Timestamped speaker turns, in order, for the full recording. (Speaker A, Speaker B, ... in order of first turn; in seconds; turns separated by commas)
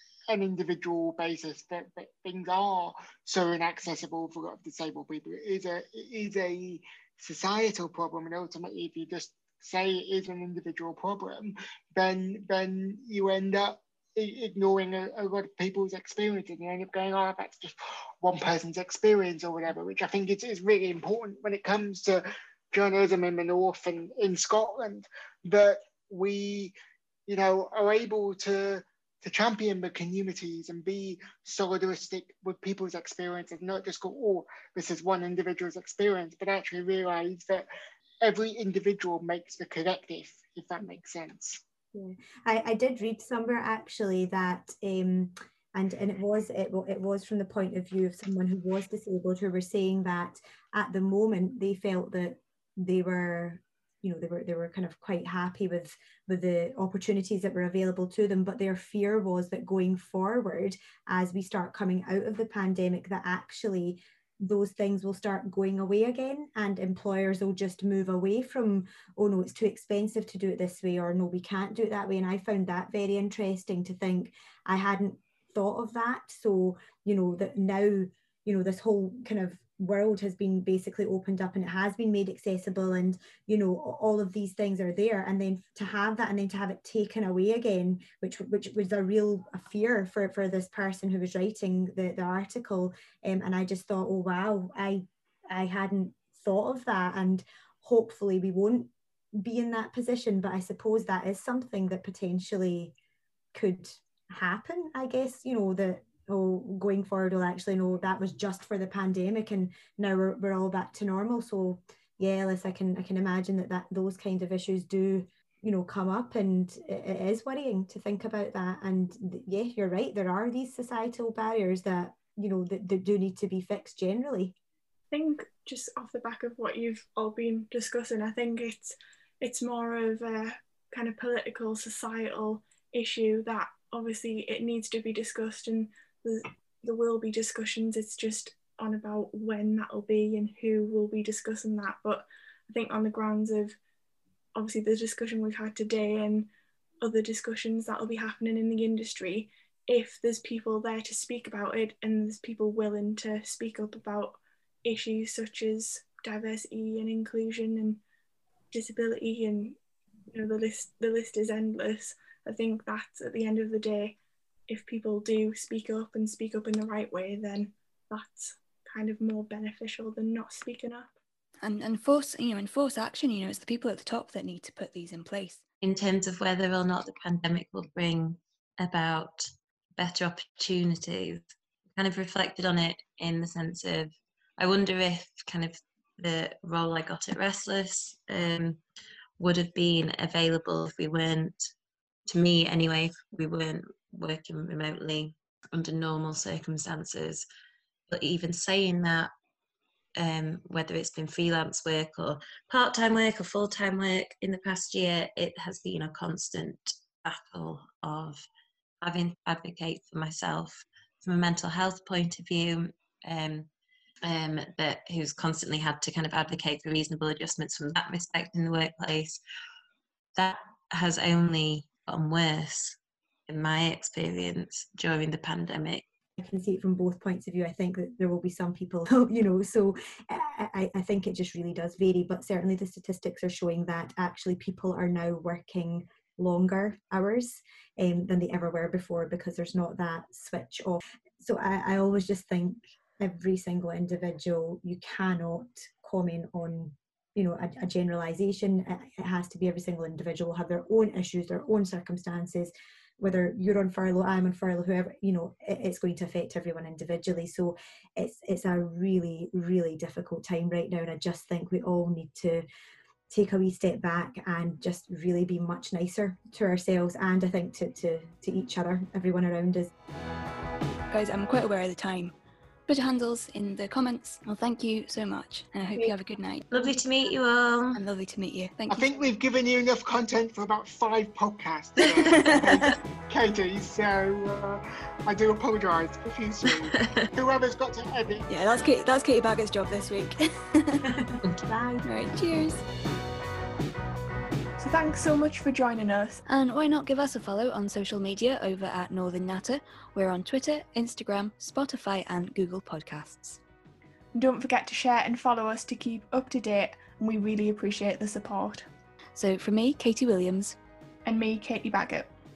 Speaker A: 0.3-26.7, Speaker A: 27.3-37.7, Speaker A: 38.2-41.6, Speaker B: 41.9-103.0, Speaker B: 103.5-124.5, Speaker C: 125.1-143.8, Speaker C: 144.6-146.5, Speaker C: 147.0-158.0, Speaker C: 158.7-159.8, Speaker C: 160.3-164.2, Speaker C: 164.7-171.1, Speaker D: 171.6-175.6, Speaker E: 175.8-181.4, Speaker E: 182.0-188.8, Speaker E: 189.4-191.7, Speaker E: 192.3-197.4, Speaker E: 198.1-199.3, Speaker E: 200.2-208.5, Speaker E: 209.0-213.7, Speaker E: 214.2-219.4, Speaker E: 220.4-223.0, Speaker E: 223.5-226.1, Speaker B: 226.4-262.6, Speaker B: 263.3-269.9, Speaker D: 271.1-272.3, Speaker D: 272.9-276.7, Speaker E: 276.7-278.0, Speaker D: 277.9-279.1, Speaker A: 278.9-288.5, Speaker D: 282.1-282.9, Speaker E: 286.9-287.3, Speaker D: 288.5-291.0, Speaker B: 291.7-292.1, Speaker D: 292.0-292.8, Speaker C: 294.8-296.4, Speaker D: 296.5-303.6, Speaker C: 304.3-308.9, Speaker D: 309.4-310.8, Speaker C: 311.3-312.3